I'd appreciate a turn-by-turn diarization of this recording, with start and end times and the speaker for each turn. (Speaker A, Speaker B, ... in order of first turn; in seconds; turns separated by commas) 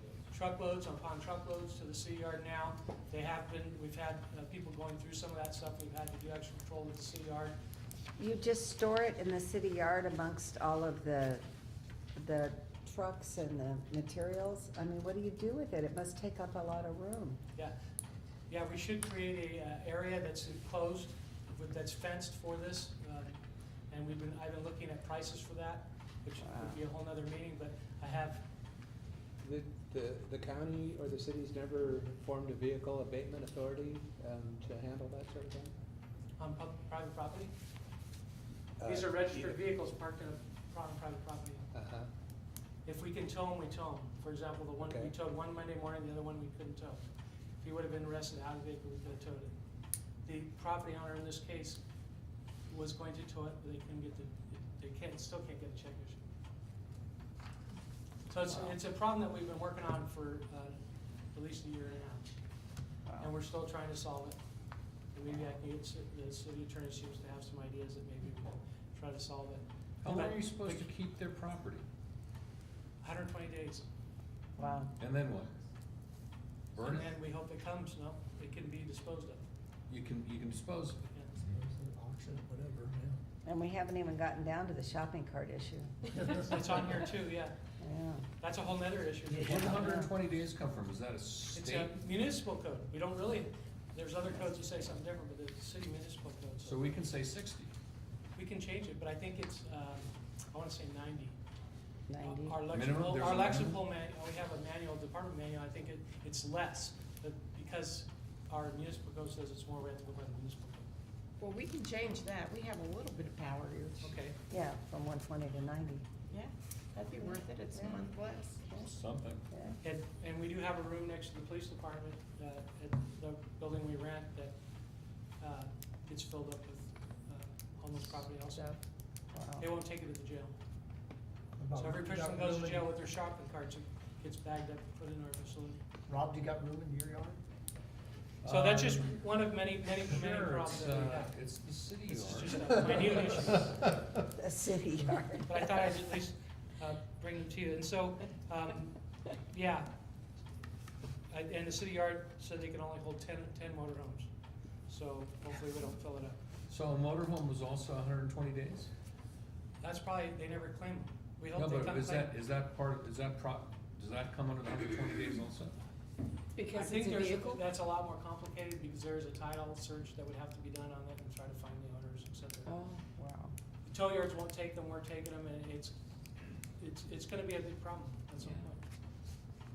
Speaker A: 0.3-7.5, Speaker B: 8.2-11.4, Speaker B: 12.2-17.4, Speaker A: 18.5-23.4, Speaker A: 23.9-28.4, Speaker B: 26.4-26.8, Speaker C: 29.4-35.8, Speaker A: 36.4-37.5, Speaker C: 38.8-39.6, Speaker A: 38.8-41.7, Speaker C: 41.7-42.1, Speaker A: 42.8-47.0, Speaker C: 44.8-45.1, Speaker A: 47.6-49.5, Speaker A: 50.2-51.8, Speaker A: 52.7-56.2, Speaker A: 58.3-60.8, Speaker B: 58.5-58.7, Speaker A: 61.3-62.3, Speaker B: 63.0-63.3, Speaker A: 63.2-64.4, Speaker A: 65.1-70.9, Speaker D: 70.0-71.8, Speaker A: 73.0-73.9, Speaker B: 74.6-74.9, Speaker D: 75.0-75.5, Speaker D: 76.8-77.1, Speaker A: 76.8-79.4, Speaker D: 79.9-81.0, Speaker A: 81.1-81.4, Speaker E: 81.4-83.2, Speaker B: 83.4-85.9, Speaker A: 86.4-87.5, Speaker B: 87.8-88.2, Speaker A: 88.4-90.0, Speaker D: 89.3-91.9, Speaker B: 89.5-90.1, Speaker A: 91.5-97.0, Speaker D: 96.6-97.7, Speaker A: 98.3-101.4, Speaker B: 102.1-102.6, Speaker A: 102.2-110.9, Speaker D: 102.7-103.8, Speaker F: 111.4-114.1, Speaker A: 114.0-114.3, Speaker B: 114.5-116.0, Speaker F: 116.3-118.7, Speaker B: 117.7-118.9, Speaker D: 118.8-119.4, Speaker B: 119.5-119.8, Speaker A: 119.8-124.5, Speaker A: 125.4-128.8, Speaker B: 129.3-129.7, Speaker A: 129.6-130.5, Speaker E: 131.6-132.9, Speaker A: 131.8-135.8, Speaker E: 136.1-137.4, Speaker D: 138.4-139.2, Speaker A: 138.4-141.4, Speaker D: 139.9-143.5, Speaker A: 142.1-143.7, Speaker B: 144.3-145.8, Speaker A: 145.4-149.9, Speaker A: 151.3-154.3, Speaker A: 154.9-156.4, Speaker D: 156.7-158.9, Speaker A: 159.8-162.3, Speaker D: 161.5-165.8, Speaker F: 166.5-167.6, Speaker A: 166.7-172.7, Speaker F: 172.7-173.5, Speaker A: 173.8-175.9, Speaker A: 176.8-178.8